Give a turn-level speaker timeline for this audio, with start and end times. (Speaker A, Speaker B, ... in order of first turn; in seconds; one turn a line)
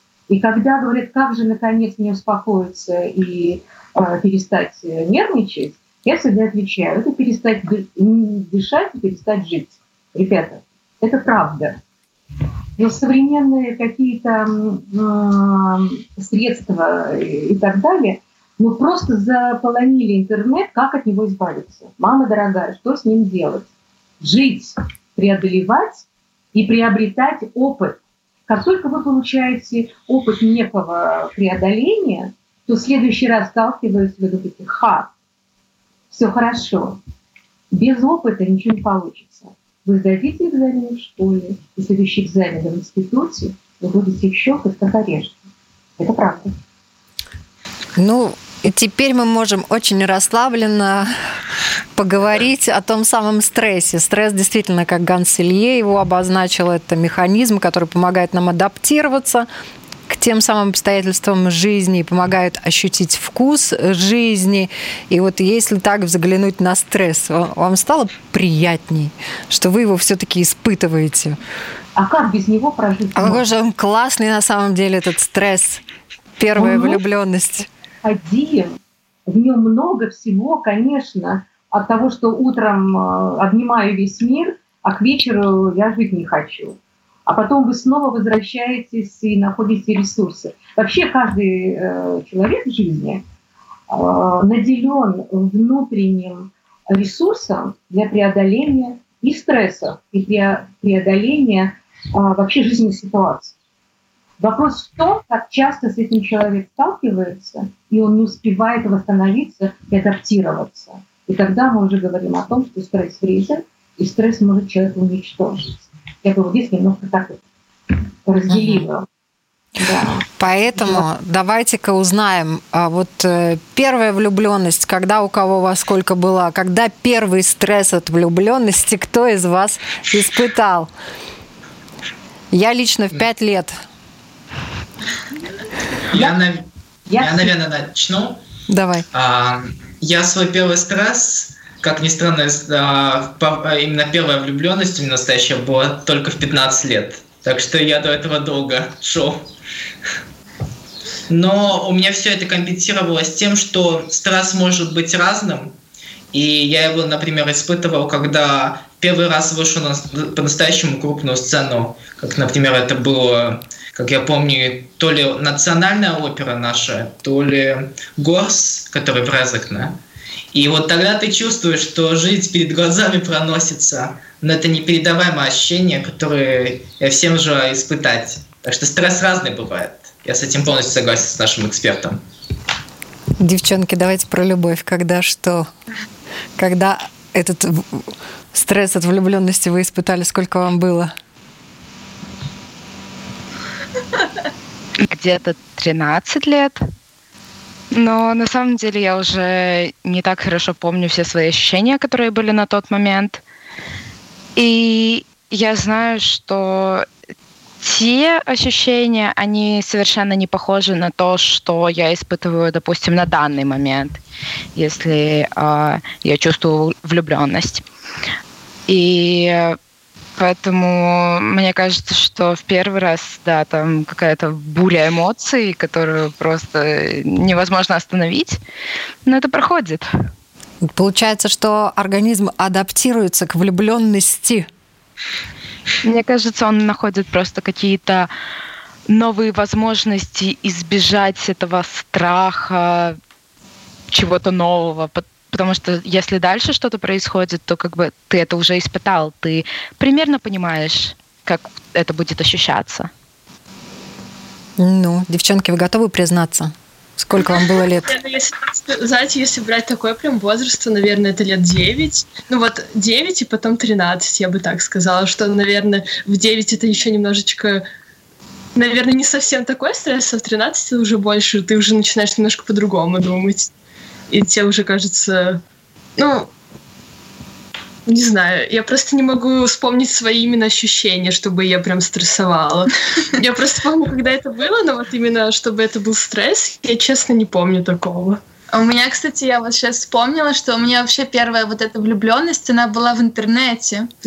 Speaker A: 0.3-11.8
Speaker A: 12.8-23.7
Speaker A: 24.2-35.1
Speaker A: 36.1-37.0
Speaker A: 37.7-45.4
Speaker A: 46.0-46.5
Speaker B: 48.0-51.1
Speaker B: 52.0-59.5
Speaker B: 60.1-71.4
Speaker A: 72.0-73.5
Speaker B: 73.2-75.8
Speaker B: 76.4-77.7
Speaker A: 76.6-77.0
Speaker A: 78.0-93.2
Speaker A: 93.9-103.5
Speaker A: 104.4-117.4
Speaker A: 118.2-119.1
Speaker B: 118.5-118.9
Speaker A: 119.8-121.0
Speaker B: 120.3-130.9
Speaker B: 132.5-133.8
Speaker C: 136.1-138.4
Speaker A: 137.1-137.5
Speaker B: 138.7-139.1
Speaker C: 139.1-149.4
Speaker C: 151.3-155.7
Speaker C: 156.3-170.0
Speaker C: 170.5-182.2
Speaker B: 183.4-185.7
Speaker B: 186.6-191.1
Speaker D: 195.0-196.8
Speaker D: 197.9-203.4
Speaker D: 204.6-207.1
Speaker D: 207.8-214.2
Speaker D: 214.8-217.8
Speaker D: 218.9-219.8
Speaker D: 220.4-228.6
Speaker D: 229.2-230.1
Speaker B: 230.8-234.7
Speaker D: 236.0-238.3
Speaker D: 239.1-243.2
Speaker D: 244.1-253.1
Speaker B: 254.8-258.1
Speaker E: 258.0-267.9
Speaker E: 268.8-273.7
Speaker E: 274.3-275.6
Speaker E: 276.2-276.5
Speaker E: 278.1-288.4
Speaker F: 288.7-294.1